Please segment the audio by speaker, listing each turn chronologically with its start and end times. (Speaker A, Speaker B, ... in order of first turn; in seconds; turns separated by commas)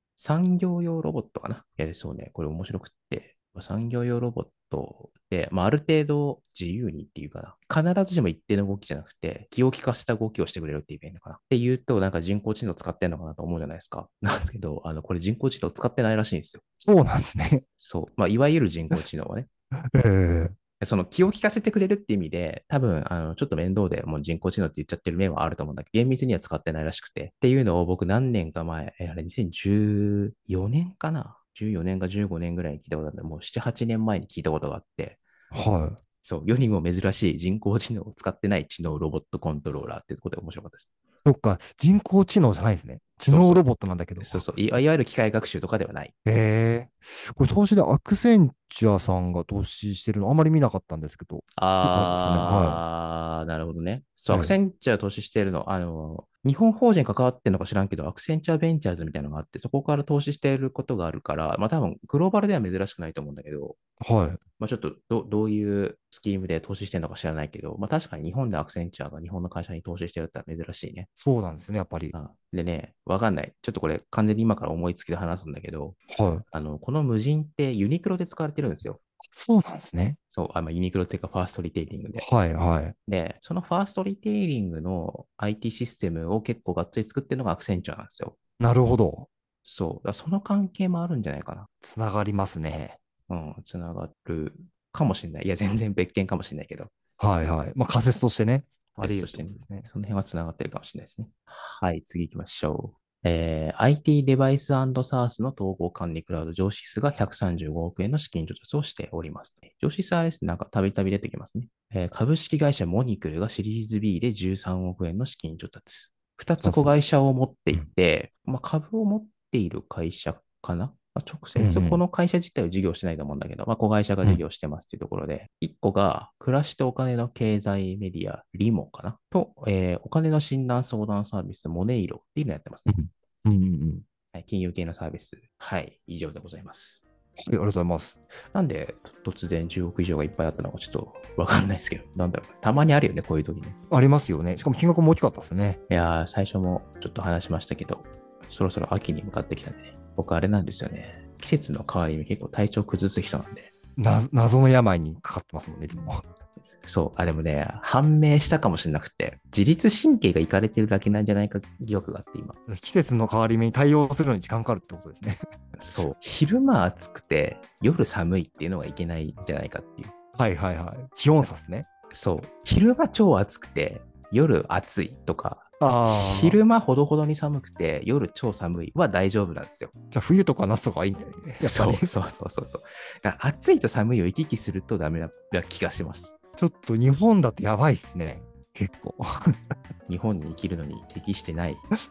Speaker A: 0.2-16.6, Speaker B: 16.8-17.6, Speaker A: 17.8-19.5, Speaker B: 19.9-20.6, Speaker A: 20.8-35.2, Speaker B: 35.5-36.0, Speaker A: 36.2-40.9, Speaker B: 41.2-44.4, Speaker A: 43.2-43.6, Speaker A: 44.2-46.1, Speaker B: 46.2-52.8, Speaker A: 51.5-63.8, Speaker B: 54.3-54.6, Speaker B: 64.0-64.4, Speaker A: 64.6-71.1, Speaker B: 71.2-72.1, Speaker A: 72.1-79.0, Speaker B: 76.1-76.4, Speaker B: 79.2-80.2, Speaker A: 80.3-82.3, Speaker B: 82.2-82.9, Speaker A: 83.0-88.4, Speaker B: 88.6-89.3, Speaker A: 89.6-91.7, Speaker B: 91.8-93.0, Speaker A: 93.3-96.9, Speaker B: 97.2-99.9, Speaker A: 99.0-132.9, Speaker B: 116.6-116.9, Speaker B: 121.6-122.0, Speaker B: 132.9-134.0, Speaker A: 134.3-137.0, Speaker B: 137.4-138.2, Speaker A: 138.5-143.8, Speaker B: 143.9-145.8, Speaker A: 145.9-153.7, Speaker B: 154.0-156.2, Speaker A: 156.8-162.6, Speaker B: 162.7-165.4, Speaker A: 165.8-170.1, Speaker B: 170.4-171.9, Speaker A: 172.1-179.9, Speaker B: 175.8-176.6, Speaker B: 180.1-182.1, Speaker A: 181.6-186.3, Speaker B: 186.6-189.5, Speaker A: 190.1-191.8